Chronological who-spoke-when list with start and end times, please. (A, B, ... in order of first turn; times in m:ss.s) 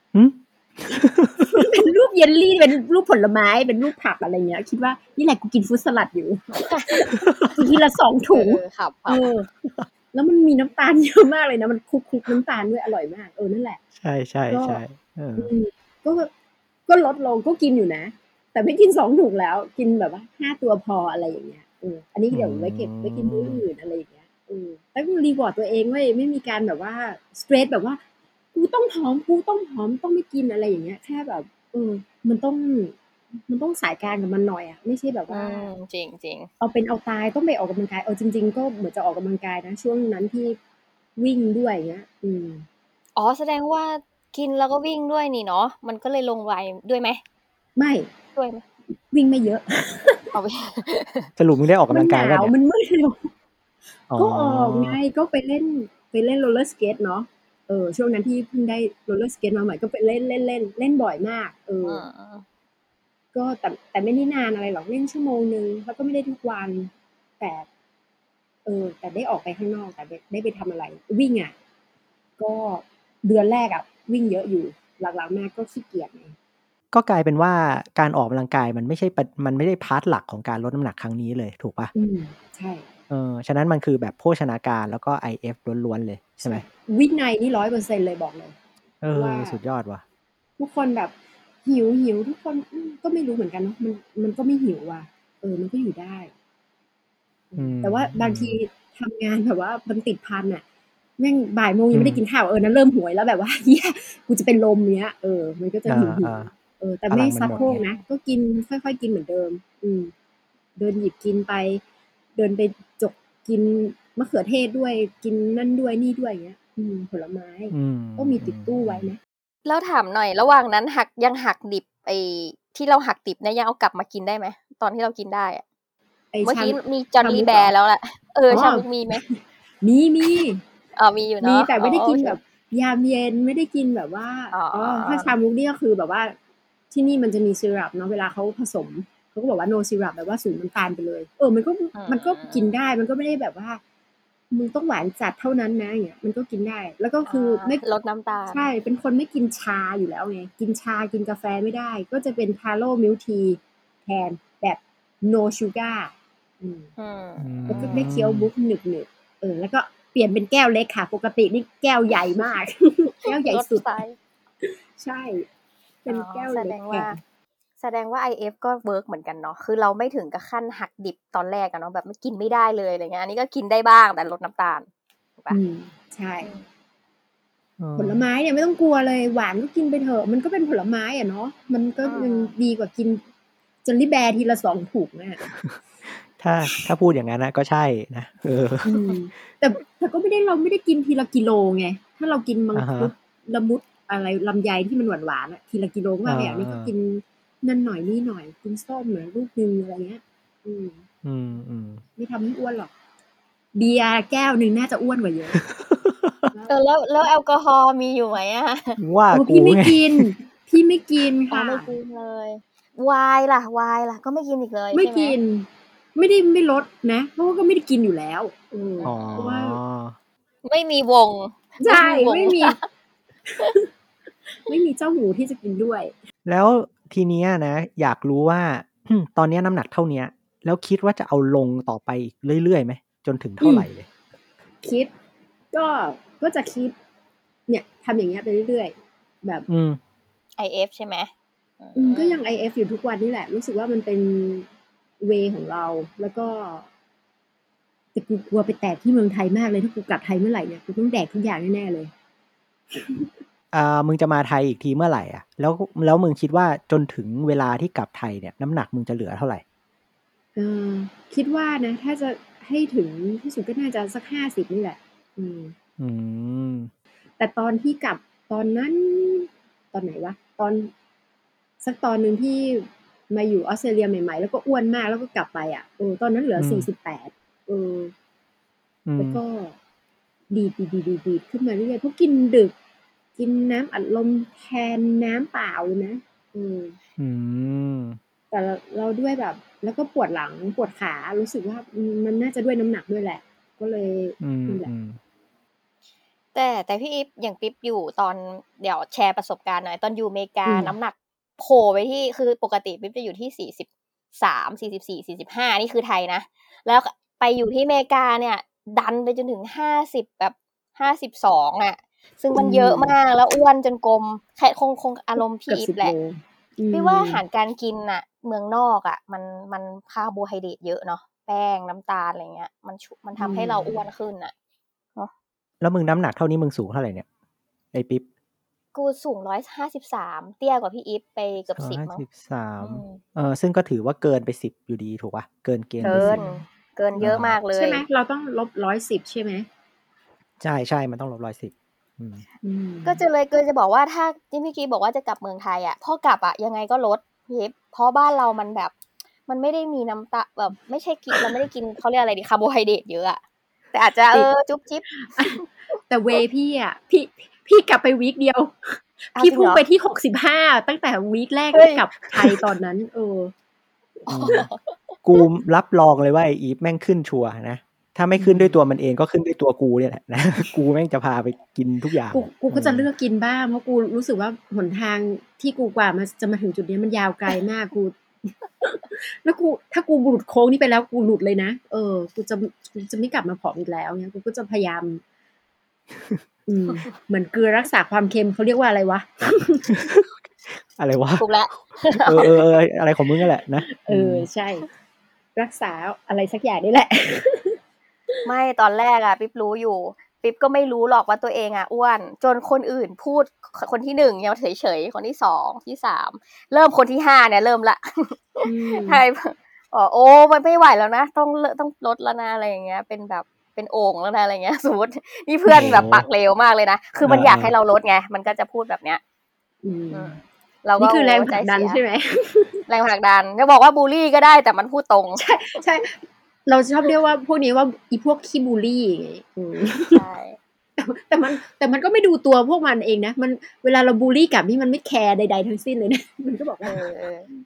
0:00.1-0:01.7 A
0:01.4-0:09.5 B
0:06.6-0:07.0 C
0:07.2-0:07.6 A
0:08.3-0:09.3 C
0:10.1-0:13.8 B
0:14.0-0:15.5 A
0:14.5-0:14.8 B
0:15.4-0:16.3 B
0:16.9-0:28.0 B
0:22.3-0:23.6 A
0:28.5-0:33.0 B
0:33.5-0:35.7 B
0:35.3-0:36.5 C
0:36.6-0:40.6 B
0:41.2-0:42.6 B
0:43.2-0:47.2 C
0:47.8-0:48.1 B
0:48.4-0:48.6 C
0:49.1-0:50.3 B
0:50.3-0:51.3 C
0:51.4-0:52.5 A
0:51.9-0:53.3 B
0:54.1-0:55.0 A
0:54.2-1:02.0 B
1:01.8-1:02.4 C
1:03.3-1:07.7 B
1:08.6-1:11.5 B
1:12.4-1:16.3 B
1:16.9-1:21.9 A
1:21.9-1:22.8 B
1:23.1-1:26.6 A
1:26.4-1:28.5 B
1:29.0-1:30.0 A
1:29.1-1:29.6 B
1:30.6-1:31.1 B
1:31.6-1:36.3 B
1:37.5-1:40.6 B
1:37.6-1:38.6 A
1:41.2-1:50.1 B
1:41.9-1:42.2 A
1:45.9-1:46.5 A
1:47.1-1:47.8 A
1:47.5-1:48.0 C
1:50.8-1:51.8 B
1:52.4-1:59.2 B
1:57.7-1:59.1 A
1:59.6-2:05.6 C
2:06.3-2:07.7 B
2:06.4-2:09.2 C
2:08.5-2:10.6 B
2:10.3-2:12.4 C
2:11.4-2:16.4 B
2:14.5-2:15.3 C
2:16.9-2:23.8 B
2:21.9-2:22.7 C
2:24.5-2:27.8 B
2:27.2-2:28.7 C
2:28.5-2:36.9 B
2:37.0-2:38.1 C
2:37.4-2:38.5 A
2:37.7-2:43.9 B
2:43.2-2:44.1 C
2:44.6-2:45.4 B
2:46.0-2:47.2 B
2:46.1-2:47.2 C
2:47.8-2:55.6 C
2:55.5-2:56.5 B
2:57.8-2:58.2 A
2:58.0-3:03.2 B
3:02.0-3:02.5 C
3:03.8-3:05.4 B
3:05.4-3:08.9 A
3:08.8-3:21.0 B
3:12.7-3:13.1 A
3:16.2-3:16.9 A
3:21.2-3:22.0 A
3:22.2-3:22.9 B
3:23.7-3:25.6 B
3:25.6-3:26.5 A
3:26.7-3:29.0 C
3:29.0-3:30.3 A
3:29.3-3:31.9 B
3:31.5-3:35.4 C
3:34.9-3:39.8 B
3:39.0-3:39.5 C
3:39.0-3:40.2 A
3:40.6-3:42.8 C
3:41.8-3:42.8 B
3:43.5-3:43.9 B
3:44.5-3:46.1 B
3:46.4-3:54.1 A
3:53.6-3:53.9 B
3:54.8-3:55.1 B
3:55.7-3:57.0 B
3:57.7-3:59.7 B
3:59.7-4:00.0 A
4:00.6-4:02.4 C
4:02.0-4:04.7 B
4:05.2-4:06.9 B
4:08.1-4:12.1 B
4:12.9-4:13.3 B
4:13.7-4:19.6 A
4:20.6-4:25.7 B
4:26.0-4:26.9 A
4:27.4-4:30.9 B
4:31.8-4:38.1 B
4:36.6-4:36.9 A
4:39.0-4:39.4 A
4:39.2-4:39.8 B
4:40.5-4:42.7 B
4:43.4-4:47.0 B
4:47.2-4:48.2 A
4:48.5-4:54.9 B
4:54.4-4:55.2 A
4:56.5-5:16.1 C
5:00.6-5:00.9 B
5:12.5-5:13.1 B
5:15.7-5:17.4 B
5:16.9-5:24.5 C
5:23.4-5:24.0 B
5:25.8-5:27.2 A
5:27.9-5:28.2 A
5:28.9-5:32.2 C
5:31.8-5:36.4 A
5:32.8-5:33.2 C
5:36.0-5:36.6 B
5:36.1-5:38.0 C
5:37.2-5:39.7 B
5:37.2-5:37.6 A
5:40.6-5:42.4 A
5:42.6-5:43.2 B
5:43.0-5:48.9 C
5:49.5-5:53.4 C
5:51.3-5:51.6 B
5:53.9-5:55.6 C
5:55.1-6:03.5 B
5:59.4-5:59.8 C
6:01.7-6:02.0 C
6:04.2-6:04.6 B
6:04.3-6:04.6 A
6:04.3-6:05.4 C
6:05.2-6:13.0 A
6:08.4-6:08.8 B
6:12.3-6:25.2 B
6:26.7-6:29.9 B
6:29.9-6:31.4 A
6:31.4-6:32.6 C
6:32.2-6:34.5 A
6:33.9-6:34.9 B
6:35.6-6:37.8 B
6:38.4-6:59.2 C
6:48.6-6:49.2 B
6:55.7-6:56.2 A
6:57.2-6:57.7 A
6:59.8-7:00.4 B
7:00.1-7:02.0 C
7:01.0-7:02.8 B
7:02.9-7:05.4 C
7:05.4-7:10.2 B
7:10.1-7:10.6 C
7:11.0-7:17.1 B
7:16.8-7:17.5 C